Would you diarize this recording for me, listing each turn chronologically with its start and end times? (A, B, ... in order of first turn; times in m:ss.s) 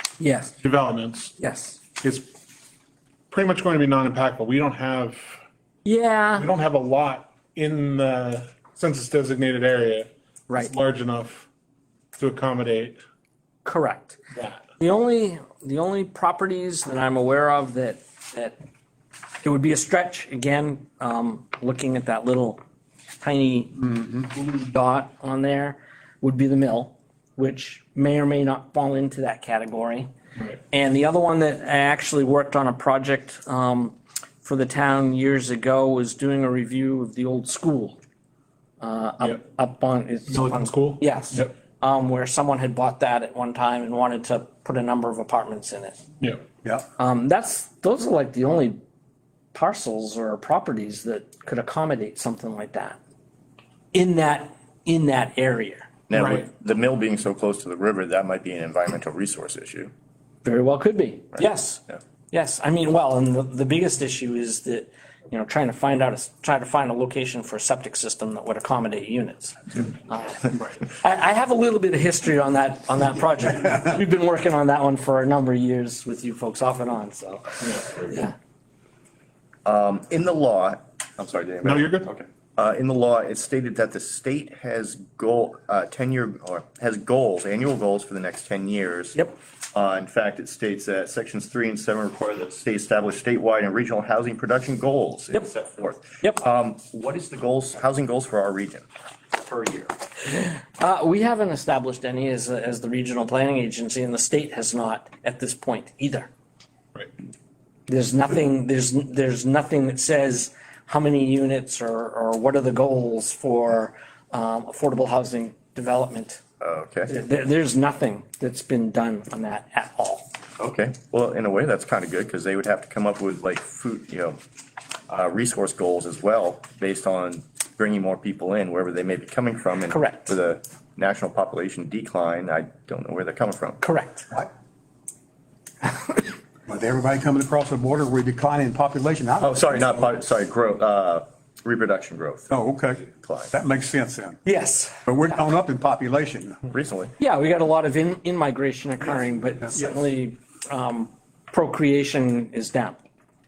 0:00.2-0:00.5 A
0:00.6-0:01.3 B
0:01.4-0:01.8 A
0:02.0-0:02.3 B
0:03.3-0:05.4 B
0:05.8-0:06.5 A
0:06.4-0:11.5 B
0:10.5-0:10.7 A
0:12.1-0:13.0 B
0:13.6-0:14.2 A
0:14.3-0:14.6 B
0:14.8-0:18.6 A
0:19.4-0:22.6 A
0:23.2-0:30.1 A
0:30.7-0:38.0 A
0:38.8-0:46.0 A
0:40.3-0:41.5 B
0:47.0-0:48.8 A
0:49.5-0:53.0 A
0:53.9-0:55.9 A
0:56.1-0:59.9 C
0:56.1-0:56.4 B
1:00.4-1:18.3 A
1:01.4-1:02.0 C
1:19.6-1:39.9 C
1:21.6-1:22.1 B
1:40.3-1:46.3 A
1:47.9-1:56.4 A
1:56.6-1:57.1 C
1:57.1-2:00.3 A
2:00.6-2:04.4 C
2:05.1-2:13.8 C
2:09.9-2:10.2 A
2:13.8-2:14.3 A
2:16.7-2:20.0 D
2:19.4-2:23.5 C
2:22.5-2:24.4 D
2:24.4-2:25.4 A
2:25.1-2:26.7 D
2:26.7-2:27.1 C
2:27.2-2:33.0 A